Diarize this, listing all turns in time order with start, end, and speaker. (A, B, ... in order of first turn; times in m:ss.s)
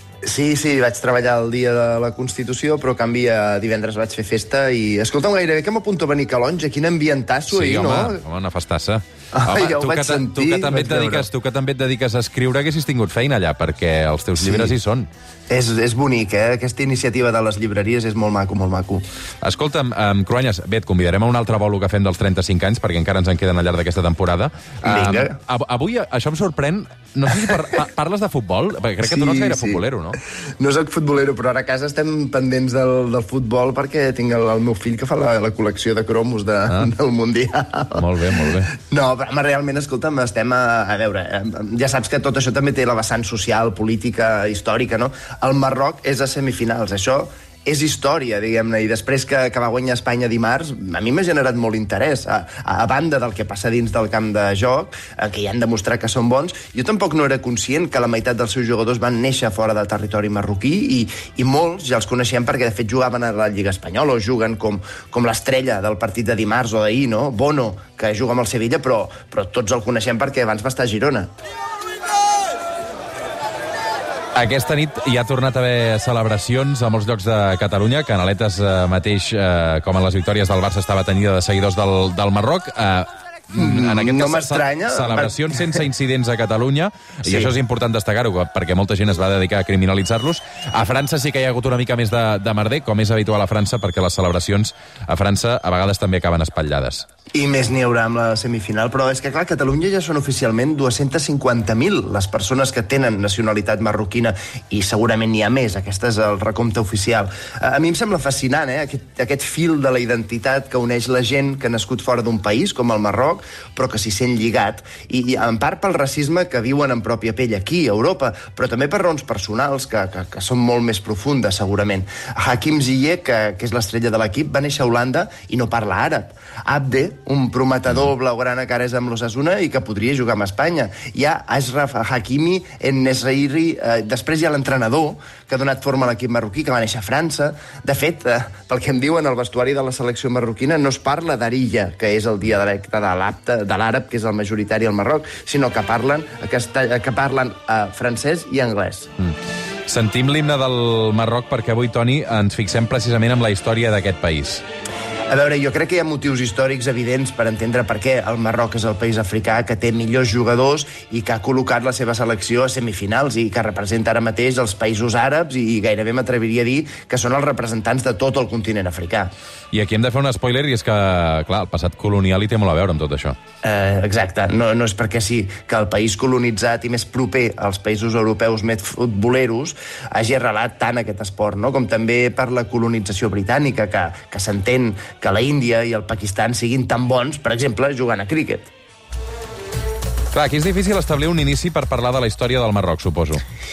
0:00.2-0:08.2 A
0:07.5-0:15.1 B
0:09.3-0:11.3 A
0:14.4-0:14.7 A
0:15.5-0:19.0 A
0:19.4-0:30.2 B
0:24.8-0:25.4 A
0:29.0-0:29.8 A
0:30.6-1:11.3 A
0:38.0-0:38.7 B
1:14.4-1:37.0 B
1:23.5-1:25.8 A
1:27.2-1:27.5 A
1:37.3-2:29.1 A
2:29.9-2:34.6 B
2:35.3-2:49.3 A
2:49.7-2:53.4 B
2:53.6-3:08.7 A
3:10.3-3:13.4 B